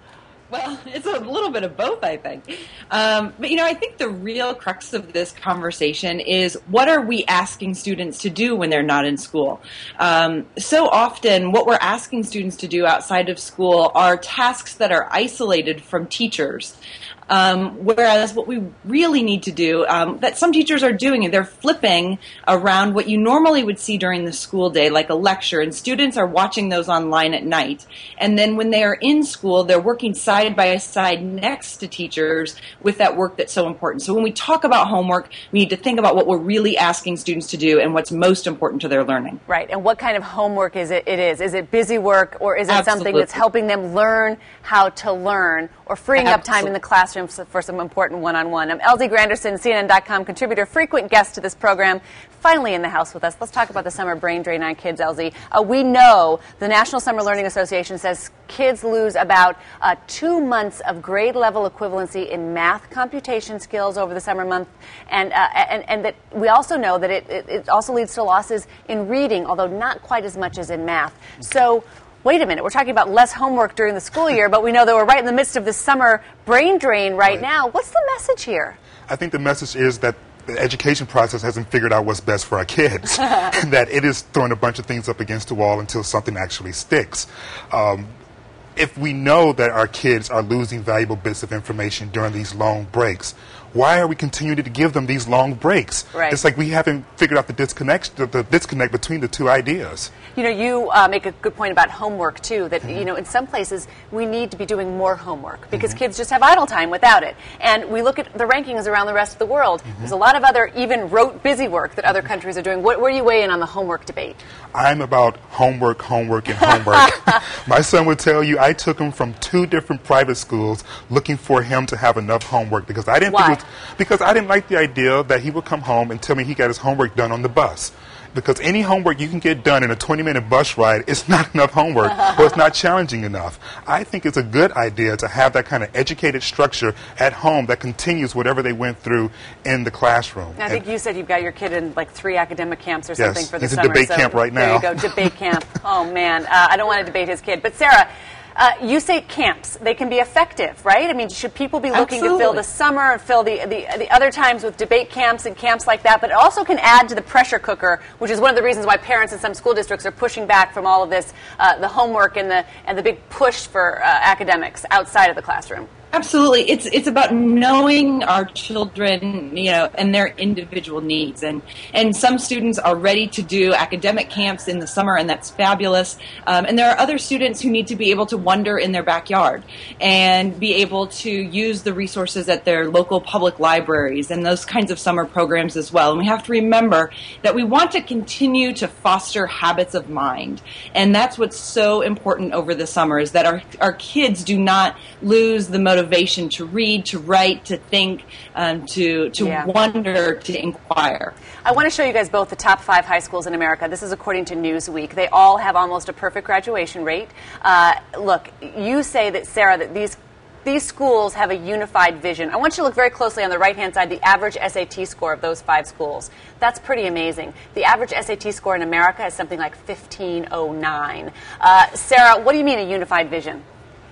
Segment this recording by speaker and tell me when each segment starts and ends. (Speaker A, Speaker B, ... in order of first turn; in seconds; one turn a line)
Speaker A: 0.5-16.8
Speaker A: 17.3-39.4
Speaker B: 39.5-78.8
Speaker A: 42.7-43.4
Speaker A: 46.2-46.7
Speaker C: 79.1-88.1
Speaker C: 88.8-100.1
Speaker B: 96.1-96.4
Speaker B: 100.3-114.4
Speaker C: 114.7-140.8
Speaker B: 123.3-123.6
Speaker B: 140.6-165.9
Speaker C: 143.2-145.1
Speaker A: 151.9-152.6
Speaker A: 166.1-201.4
Speaker B: 199.4-199.7
Speaker B: 201.6-223.6